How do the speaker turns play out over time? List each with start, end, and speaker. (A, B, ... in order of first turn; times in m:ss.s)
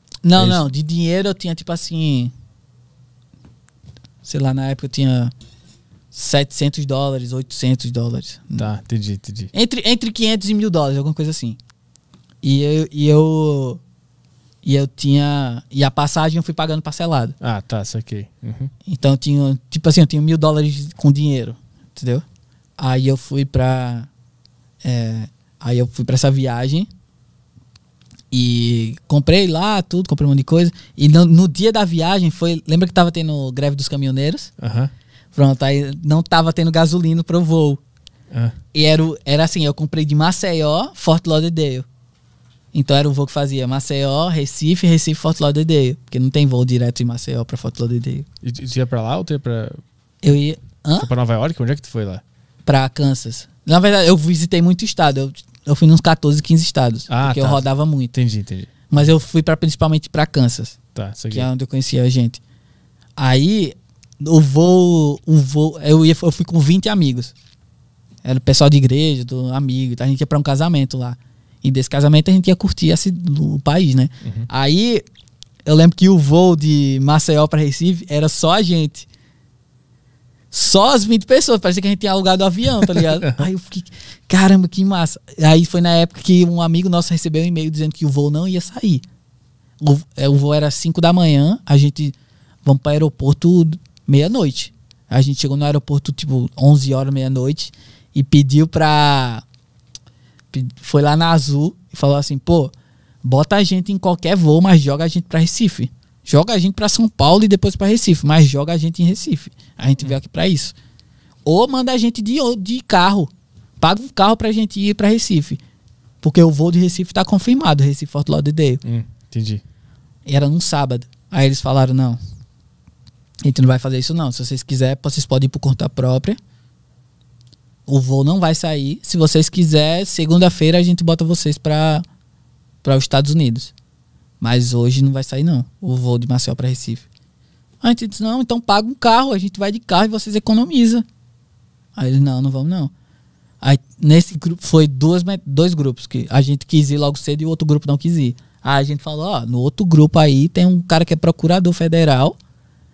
0:00.2-0:02.3 A
0:00.4-0:00.6 B
0:04.2-0:05.3 A
0:06.1-0:08.7 A
0:08.6-0:09.5 B
0:09.5-0:11.6 A
0:12.4-0:13.8 A
0:14.6-0:17.4 A
0:17.4-0:18.7 B
0:18.9-0:22.2 A
0:22.8-0:24.1 A
0:24.8-0:26.9 A
0:28.3-0:34.5 A
0:34.6-0:34.9 B
0:35.3-0:37.8 A
0:38.7-0:41.8 A
0:42.7-0:48.2 A
0:48.4-0:49.8 B
0:50.2-0:51.1 A
0:51.0-0:52.2 B
0:52.6-0:58.1 A
0:57.1-0:58.7 B
0:58.9-1:00.8 A
1:00.9-1:01.5 B
1:01.3-1:02.4 A
1:03.2-1:07.3 A
1:08.2-1:15.0 A
1:15.6-1:19.0 A
1:20.5-1:29.0 A
1:22.9-1:23.5 B
1:29.8-1:39.4 A
1:40.5-1:42.7 A
1:43.2-1:50.7 A
1:51.4-1:55.6 A
1:56.2-1:58.8 A
1:58.8-1:59.6 B
2:00.2-2:02.2 A
2:03.4-2:06.4 A
2:07.9-2:12.0 A
2:12.8-2:13.7 A
2:14.4-2:17.0 A
2:17.8-2:21.0 A
2:22.0-2:22.9 A
2:23.6-2:32.4 A